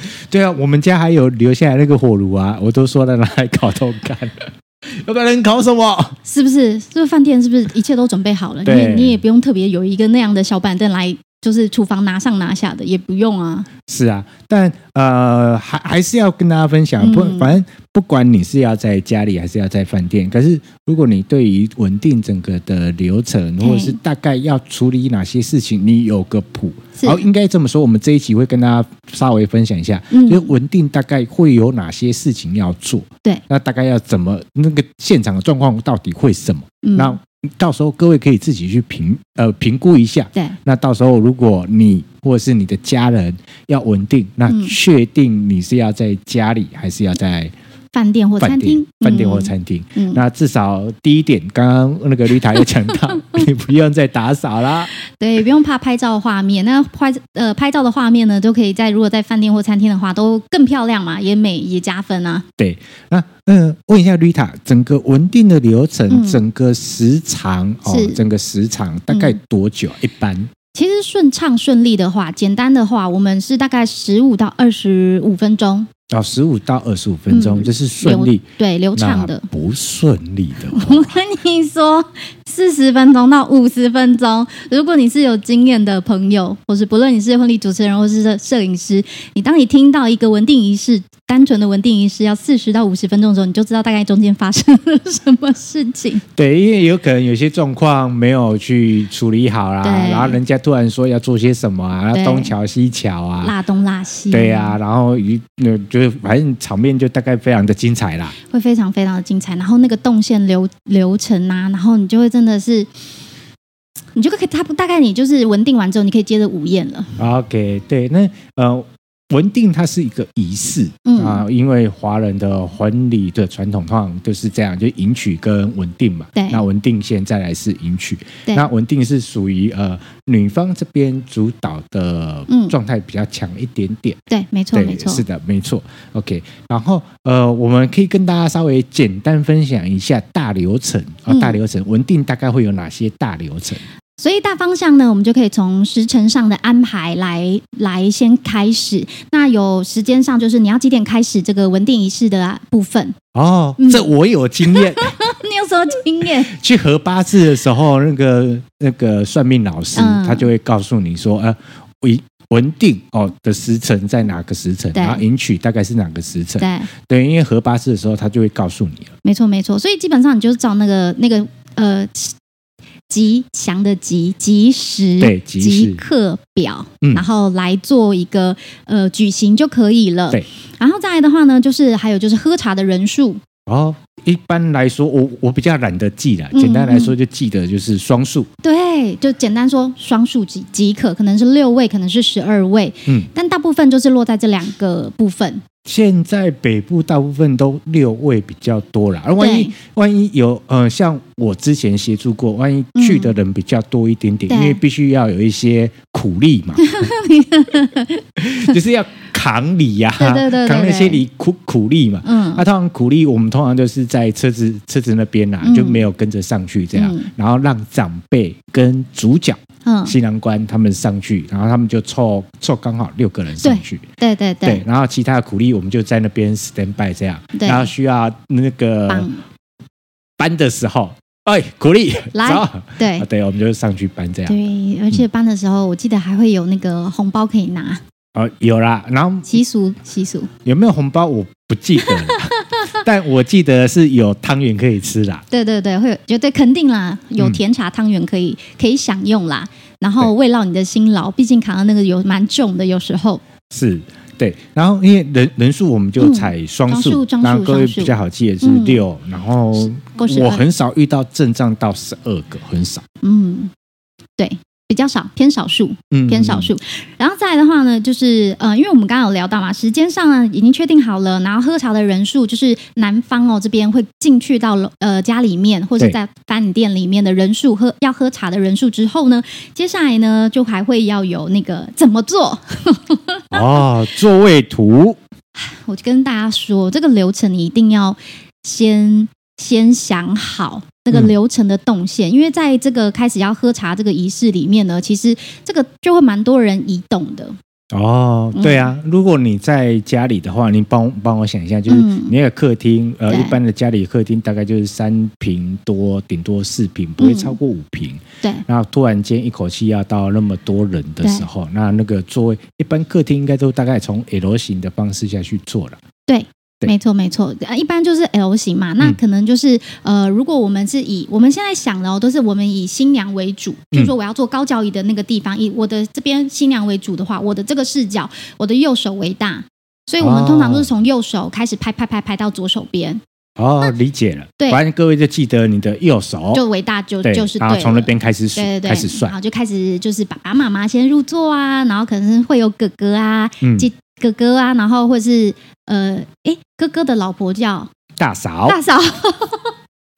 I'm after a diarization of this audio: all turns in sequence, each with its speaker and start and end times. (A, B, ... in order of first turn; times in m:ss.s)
0:00.3-0:06.2 A
0:06.2-0:13.7 B
0:08.6-0:09.2 A
0:13.9-0:47.5 A
0:17.0-0:17.6 B
0:23.6-0:24.0 B
0:27.0-0:27.2 B
0:30.1-0:30.5 B
0:36.8-0:37.2 B
0:44.5-0:44.7 B
0:47.9-0:50.2 B
0:48.4-0:54.9 A
0:55.1-1:02.4 B
1:02.6-1:10.5 A
1:06.1-1:06.4 B
1:07.9-1:08.2 B
1:09.1-1:09.4 B
1:10.7-1:15.9 B
1:16.1-1:18.4 A
1:17.3-1:19.5 B
1:19.0-1:21.1 A
1:20.7-1:36.2 B
1:36.4-1:43.5 A
1:39.8-1:40.4 B
1:42.1-1:42.5 B
1:43.4-1:44.8 B
1:44.3-1:48.3 A
1:48.5-1:52.9 B
1:54.2-1:57.2 B
1:57.2-2:14.2 A
2:01.0-2:01.4 B
2:06.3-2:06.6 B
2:12.5-2:12.7 B
2:14.3-2:15.2 B
2:14.7-2:23.8 A
2:21.3-2:21.6 B
2:24.2-2:33.2 B
2:33.3-2:35.3 A
2:33.8-2:34.1 B
2:34.7-2:36.5 B
2:36.5-2:49.1 A
2:39.9-2:40.5 B
2:44.9-2:45.2 B
2:46.6-2:46.9 B
2:49.2-2:52.3 B
2:53.1-3:03.4 B
2:55.2-2:56.0 A
3:03.7-3:08.5 A
3:06.5-3:07.1 B
3:08.6-3:15.6 B
3:15.8-3:27.1 A
3:19.4-3:19.7 B
3:22.9-3:23.3 B
3:24.5-3:24.8 B
3:26.8-3:28.7 B
3:28.4-3:44.0 A
3:30.2-3:31.2 B
3:32.2-3:32.6 B
3:35.6-3:36.0 B
3:36.9-3:37.3 B
3:39.8-3:40.1 B
3:43.6-3:44.8 B
3:44.6-3:49.3 A
3:47.5-3:47.9 B
3:49.1-3:49.4 B
3:50.4-3:54.6 A
3:52.3-3:53.2 B
3:54.5-3:58.0 B
3:58.3-3:59.5 A
3:59.4-4:00.5 B
4:00.6-4:05.4 A
4:02.0-4:03.0 B
4:05.5-4:13.4 B
4:13.7-4:23.0 A
4:16.2-4:19.0 B
4:20.1-4:20.6 B
4:23.2-4:23.7 B
4:24.4-4:43.8 B
4:26.1-4:26.7 A
4:43.5-4:45.2 A
4:45.5-4:57.6 B
4:57.9-5:16.0 A
4:58.5-4:58.9 B
5:01.9-5:02.3 B
5:03.3-5:03.6 B
5:07.2-5:07.6 B
5:16.3-5:33.2 B
5:30.2-5:30.9 A
5:33.6-5:36.6 A
5:36.5-5:47.9 B
5:37.2-5:39.3 A
5:43.6-5:43.9 A
5:48.2-5:48.8 A
5:48.6-5:49.7 B